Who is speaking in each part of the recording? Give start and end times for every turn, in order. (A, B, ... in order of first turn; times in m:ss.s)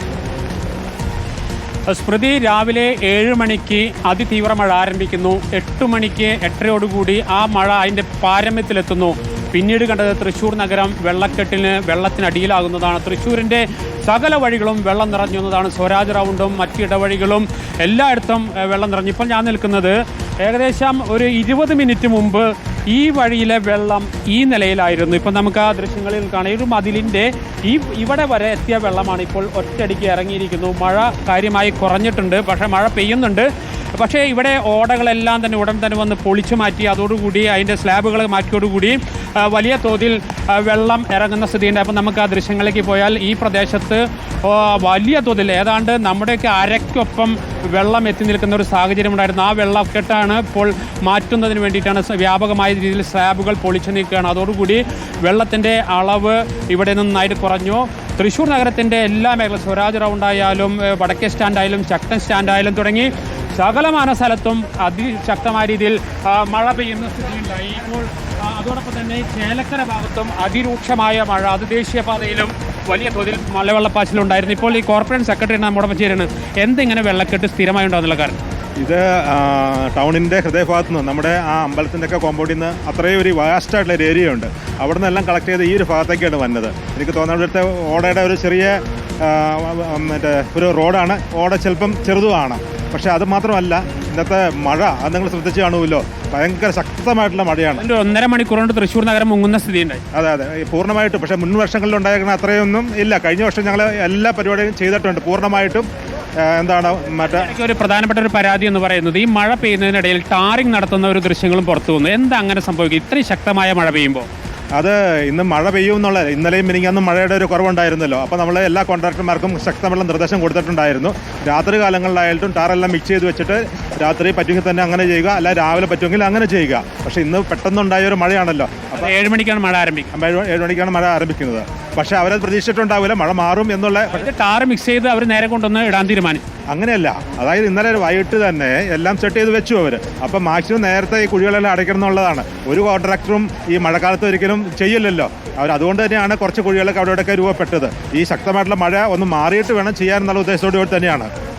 0:01.9-1:18.4 A
1:18.8-1:37.8 B
1:37.8-1:40.0 A
1:40.1-1:45.9 B
1:46.4-1:47.5 B
1:47.4-1:54.3 A
1:54.8-2:09.1 B
2:09.0-2:10.1 A
2:10.1-2:14.3 B
2:14.1-2:16.4 A
2:16.7-2:31.3 B